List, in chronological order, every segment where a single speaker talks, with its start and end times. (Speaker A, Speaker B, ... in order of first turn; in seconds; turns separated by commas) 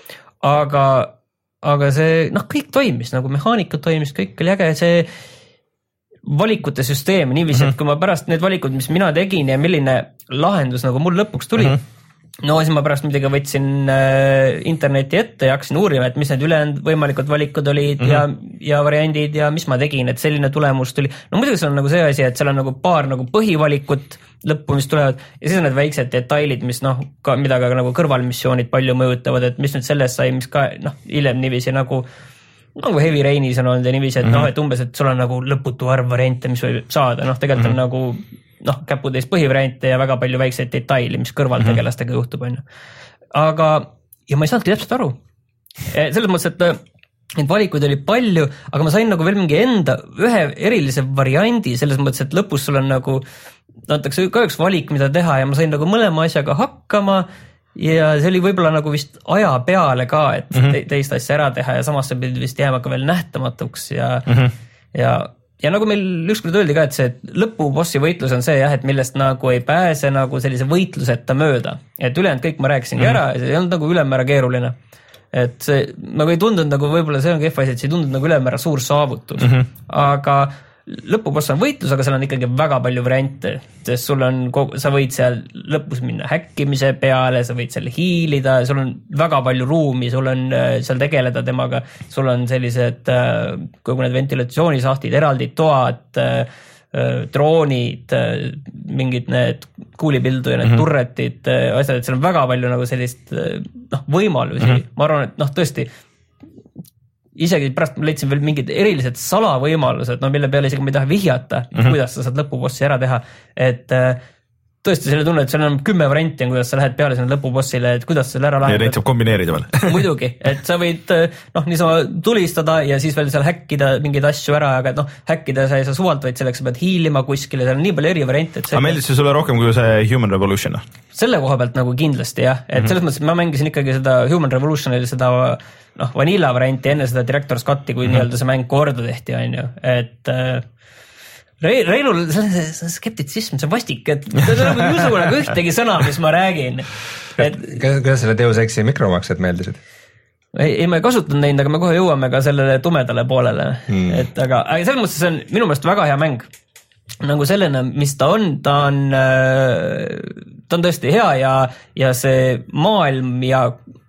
Speaker A: 0.4-5.1, Speaker A: 6.3-11.8, Speaker A: 12.4-32.1, Speaker A: 32.8-42.6, Speaker B: 34.2-34.5, Speaker A: 43.3-45.2, Speaker A: 45.9-46.8, Speaker A: 47.4-53.2, Speaker A: 53.9-64.4, Speaker A: 64.9-74.8, Speaker A: 75.3-105.9, Speaker B: 79.4-79.7, Speaker A: 107.4-114.2, Speaker A: 114.8-119.0, Speaker B: 118.7-120.1, Speaker A: 119.8-129.0, Speaker B: 128.7-130.8, Speaker A: 131.1-140.7, Speaker A: 141.6-147.7, Speaker C: 147.4-149.8, Speaker A: 150.5-156.5, Speaker A: 157.2-163.8